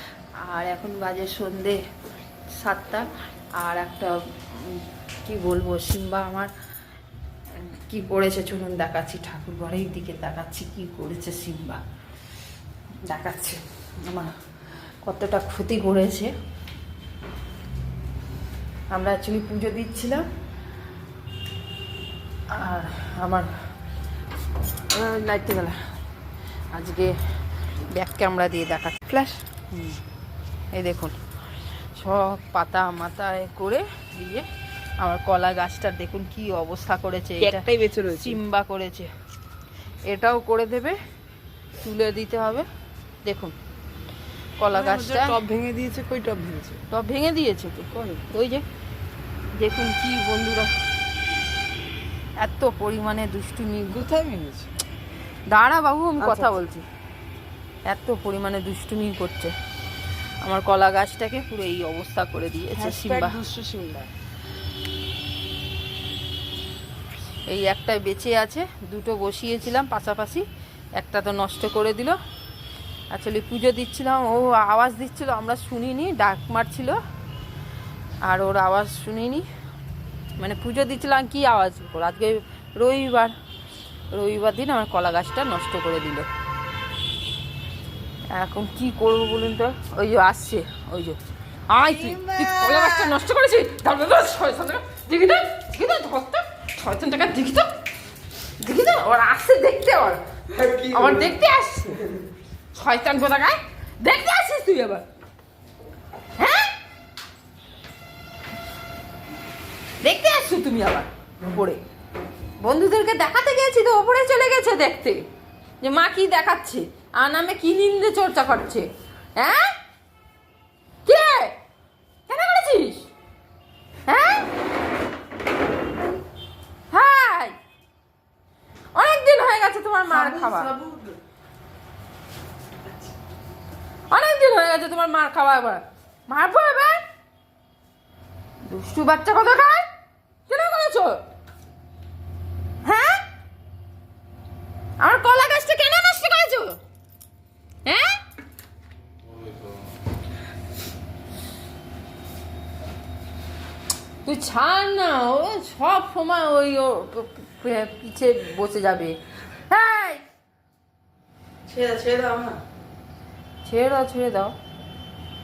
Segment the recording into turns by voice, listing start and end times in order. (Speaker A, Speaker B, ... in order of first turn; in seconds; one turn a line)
Speaker A: 0.4-1.8
Speaker A: 2.5-6.5
Speaker A: 7.5-11.8
Speaker A: 13.1-14.3
Speaker A: 15.0-16.3
Speaker A: 18.9-20.2
Speaker A: 22.5-23.5
Speaker A: 24.9-25.8
Speaker A: 26.7-27.1
Speaker A: 27.9-29.1
Speaker B: 29.1-29.4
Speaker A: 29.7-30.0
Speaker A: 30.7-31.2
Speaker A: 31.9-34.5
Speaker A: 35.0-39.1
Speaker B: 37.4-38.4
Speaker A: 40.1-41.0
Speaker A: 41.8-42.7
Speaker A: 43.2-43.5
Speaker A: 44.6-45.4
Speaker B: 44.7-46.8
Speaker A: 46.9-48.6
Speaker B: 48.0-48.2
Speaker A: 49.5-50.7
Speaker A: 52.4-54.1
Speaker B: 54.0-54.7
Speaker A: 55.5-56.8
Speaker B: 56.2-56.6
Speaker A: 57.9-59.5
Speaker A: 60.4-63.4
Speaker B: 62.8-64.1
Speaker A: 67.5-70.4
Speaker A: 71.0-72.2
Speaker A: 73.1-77.0
Speaker A: 78.2-79.5
Speaker A: 80.4-83.3
Speaker A: 84.1-86.3
Speaker A: 88.3-97.7
Speaker B: 91.9-93.2
Speaker A: 98.6-100.2
Speaker B: 100.5-101.4
Speaker A: 100.8-102.0
Speaker A: 102.7-105.0
Speaker A: 106.4-106.7
Speaker A: 110.0-111.8
Speaker A: 112.6-115.2
Speaker A: 115.8-119.8
Speaker A: 121.0-121.6
Speaker A: 122.3-123.1
Speaker A: 124.1-124.5
Speaker A: 126.9-127.6
Speaker A: 128.9-130.7
Speaker B: 130.1-131.2
Speaker B: 132.9-133.1
Speaker A: 134.1-137.0
Speaker A: 138.7-139.8
Speaker A: 140.5-141.3
Speaker A: 142.8-143.2
Speaker A: 145.0-146.8
Speaker A: 147.8-148.2
Speaker A: 154.2-160.2
Speaker A: 161.7-162.6
Speaker A: 163.6-164.5